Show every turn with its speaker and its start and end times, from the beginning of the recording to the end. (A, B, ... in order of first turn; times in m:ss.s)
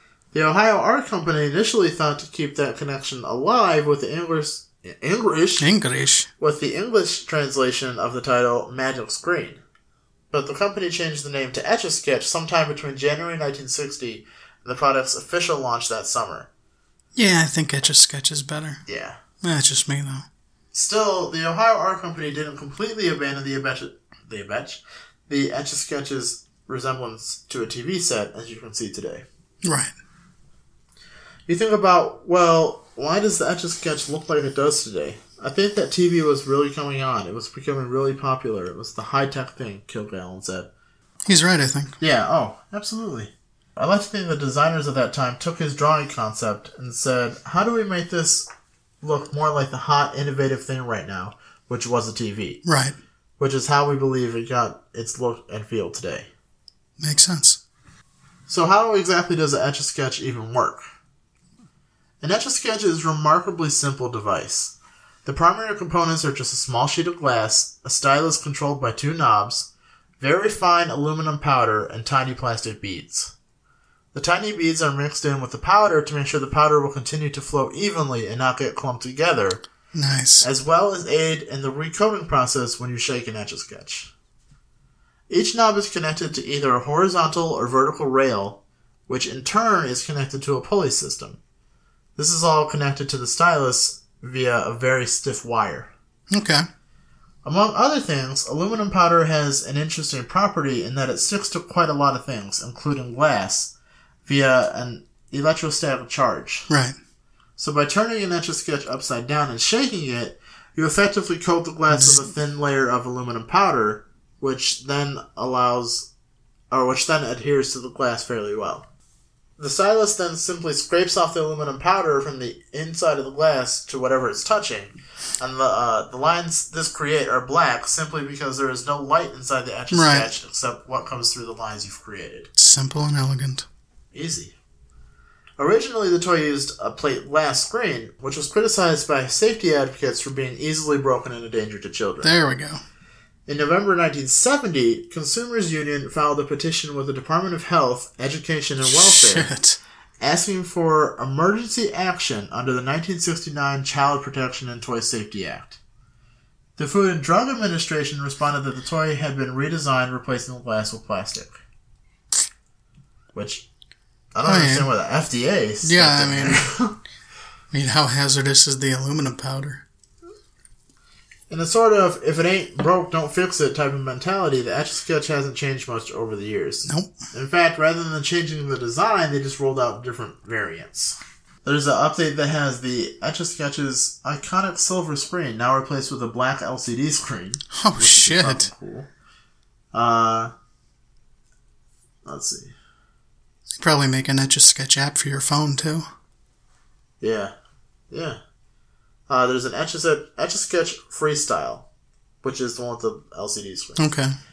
0:00.3-0:05.7 A
0:05.6-0:06.3 B
0:06.4-0:09.6 A
0:10.3-0:16.5 A
0:17.1-0:18.8 B
0:18.8-0:19.2 A
0:19.4-0:20.2 B
0:20.7-0:29.2 A
0:29.6-0:29.9 B
0:31.5-0:40.7 A
0:41.2-0:42.0 B
0:42.0-0:48.5 A
0:49.0-0:52.6 A
0:52.6-0:53.0 B
0:53.4-0:56.3 A
0:57.0-0:57.6 B
0:58.5-1:00.8 A
1:02.2-1:09.7 A
1:10.2-1:13.3 A
1:14.1-1:19.6 A
1:19.9-1:20.4 B
1:20.4-1:24.1 A
1:25.3-1:31.4 A
1:32.2-1:35.9 A
1:36.3-1:36.6 B
1:37.4-1:43.7 A
1:44.2-1:46.7 A
1:46.7-1:47.0 B
1:47.6-1:56.1 A
1:51.9-1:52.3 B
1:56.7-1:58.8 A
1:59.6-2:12.5 A
2:09.9-2:10.3 B
2:12.6-2:13.6 B
2:14.1-2:14.5 A
2:15.6-2:22.3 A
2:22.2-2:22.8 B
2:23.5-2:29.5 A
2:28.8-2:29.8 B
2:30.2-2:35.8 A
2:36.8-2:41.6 A
2:43.3-2:43.6 A
2:44.3-2:47.0 A
2:44.4-2:44.9 B
2:45.8-2:46.6 B
2:47.7-2:49.8 B
2:51.5-3:09.1 A
2:56.8-2:57.1 B
3:07.7-3:08.7 B
3:09.9-3:10.5 A
3:12.2-3:12.7 A
3:13.8-3:16.0 B
3:17.2-3:17.5 A
3:18.1-3:18.4 A
3:19.3-3:21.8 A
3:22.4-3:24.1 A
3:24.0-3:24.3 B